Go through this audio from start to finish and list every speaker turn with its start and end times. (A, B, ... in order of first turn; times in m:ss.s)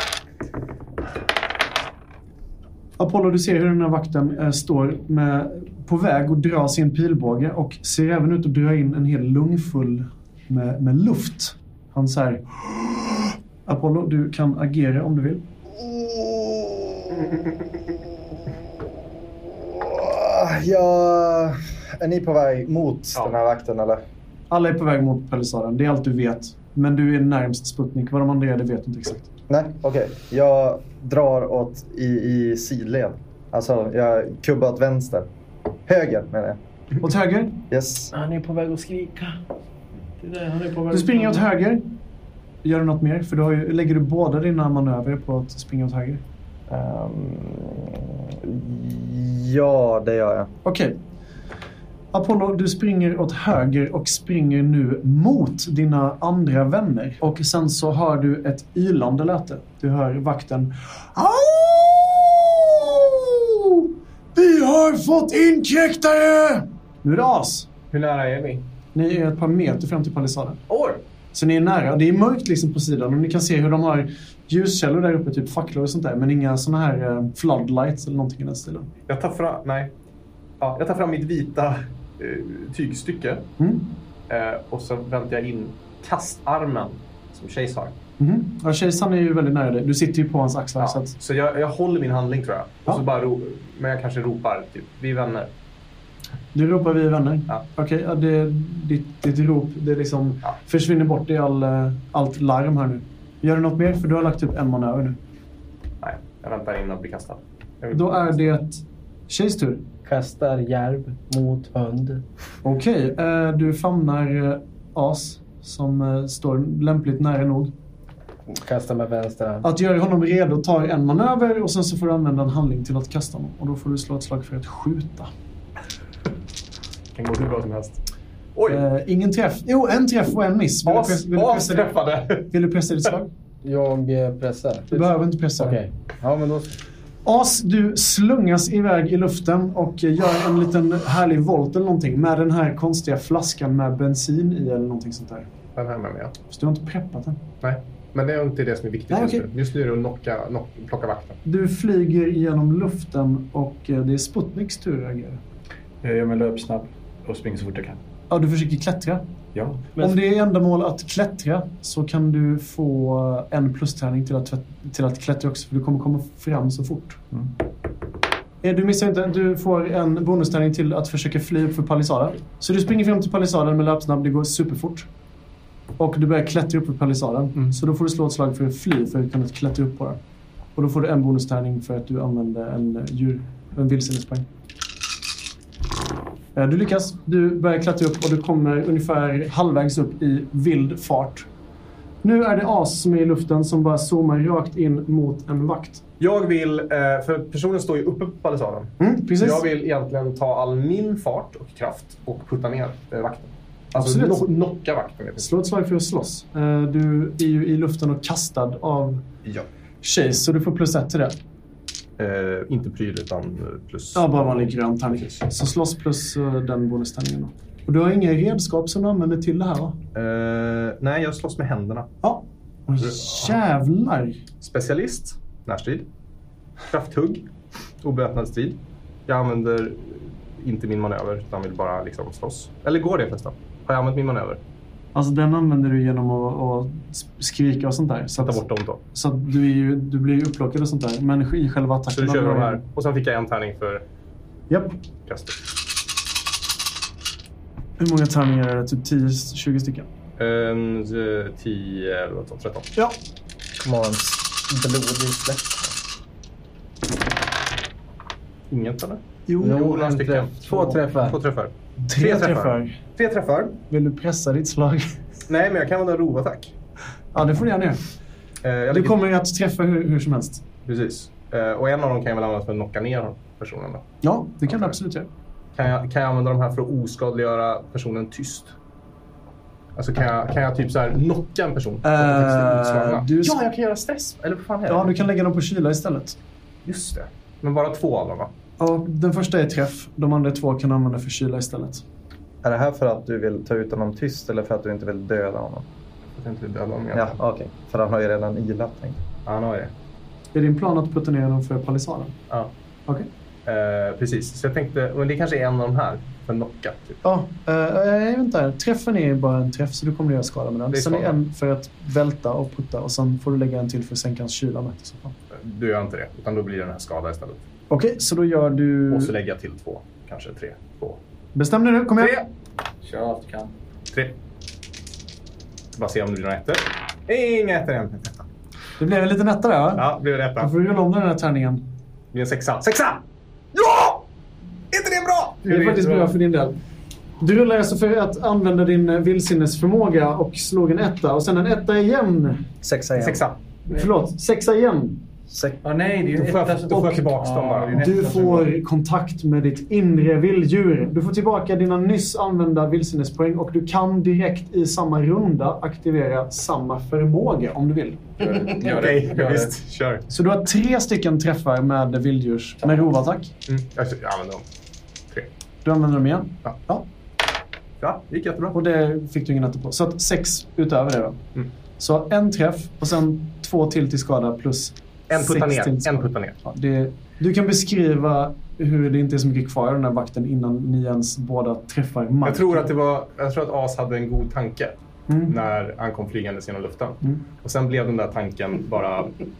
0:03.0-0:12.7 A
0:13.6-0:15.4 A
0:15.7-0:17.3 B
0:19.5-0:24.0 B
0:24.5-0:29.3 A
0:29.5-0:35.3 B
0:35.8-0:36.6 B
0:37.0-0:37.6 A
0:37.7-0:38.1 B
0:38.1-0:39.4 C
0:40.2-0:41.4 C
0:40.9-0:41.9 A
0:42.6-0:46.2 A
0:46.7-0:50.5 B
0:50.6-0:51.0 A
0:52.1-1:07.7 A
1:07.9-1:08.6 D
1:08.9-1:10.6 A
1:10.7-1:11.0 D
1:11.3-1:18.9 A
1:19.1-1:19.9 D
1:20.6-1:23.5 D
1:23.6-1:23.9 A
1:24.3-1:28.0 D
1:28.2-1:31.1 A
1:30.8-1:35.5 D
1:36.5-1:45.2 A
1:46.0-1:48.6 D
1:47.9-1:49.8 A
1:50.0-1:52.2 C
1:52.6-1:57.7 A
1:58.5-1:59.7 C
1:59.6-2:05.3 A
2:07.1-2:08.0 D
2:08.5-2:08.8 D
2:08.7-2:11.9 A
2:10.8-2:12.5 D
2:12.5-2:13.3 A
2:13.6-2:16.8 C
2:14.9-2:15.8 A
2:17.2-2:25.5 A
2:25.8-2:26.3 D
2:26.5-2:27.4 A
2:27.6-2:31.4 D
2:29.1-2:29.4 A
2:31.4-2:35.4 A
2:36.0-2:38.0 E
2:38.3-2:39.2 A
2:39.5-2:40.0 E
2:40.0-2:47.2 A
2:48.6-2:55.1 A
2:56.0-3:00.2 A
3:00.8-3:04.4 A
3:06.5-3:11.5 A
3:12.2-3:16.0 A
3:16.2-3:25.5 D
3:19.0-3:19.6 A
3:24.0-3:24.5 A
3:25.4-3:29.2 A
3:30.0-3:31.4 A
3:32.2-3:34.5 D
3:34.1-3:40.0 A
3:35.2-3:35.4 D
3:40.1-3:42.1 D
3:42.2-3:44.4 A
3:43.0-3:43.6 D
3:44.6-3:46.1 D
3:46.9-3:47.4 D
3:48.0-3:54.6 D
3:55.1-3:58.6 A
3:58.4-3:59.0 D
3:59.1-4:02.8 A
4:02.1-4:04.0 D
4:05.3-4:05.6 D
4:08.0-4:10.1 A
4:10.4-4:12.9 D
4:13.8-4:16.0 B
4:18.7-4:23.8 D
4:19.5-4:19.8 A
4:19.6-4:21.4 C
4:22.0-4:22.9 A
4:23.9-4:25.1 A
4:25.5-4:26.7 D
4:27.3-4:28.0 A
4:28.6-4:29.2 D
4:28.9-4:30.6 A
4:30.8-4:34.0 D
4:34.2-4:35.3 A
4:34.7-4:34.9 D
4:35.8-4:38.7 D
4:40.0-4:45.2 D
4:42.0-4:43.6 A
4:44.9-4:46.4 A
4:46.8-4:48.5 D
4:48.8-4:52.0 A
4:52.6-4:55.8 B
4:56.4-4:57.4 D
4:57.1-4:59.2 B
4:59.4-4:59.9 D
5:00.5-5:02.4 A
5:03.6-5:07.2 D
5:07.2-5:15.3 A
5:10.9-5:11.4 D
5:15.5-5:17.6 D
5:17.9-5:19.3 A
5:19.1-5:21.2 D
5:21.5-5:22.4 A
5:22.2-5:22.4 D
5:23.0-5:23.7 E
5:24.1-5:24.4 D
5:26.0-5:28.3 D
5:29.0-5:31.8 A
5:30.0-5:30.7 D
5:32.3-5:33.2 D
5:33.7-5:34.2 D
5:34.9-5:36.1 D
5:35.6-5:36.8 A
5:35.9-5:36.3 E
5:37.4-5:42.7 A
5:42.8-5:43.4 B
5:43.2-5:43.6 D
5:43.9-5:45.2 A
5:45.5-5:45.8 B
5:45.8-5:48.7 E
5:46.3-5:48.1 D
5:47.9-5:58.6 A
5:58.4-6:00.2 D
5:58.6-5:59.7 E
6:00.3-6:03.5 A
6:03.7-6:04.6 D
6:05.8-6:07.0 A
6:08.0-6:08.8 D
6:08.7-6:11.4 A
6:12.0-6:22.9 A
6:15.3-6:16.6 D
6:22.4-6:29.4 D
6:25.3-6:25.5 A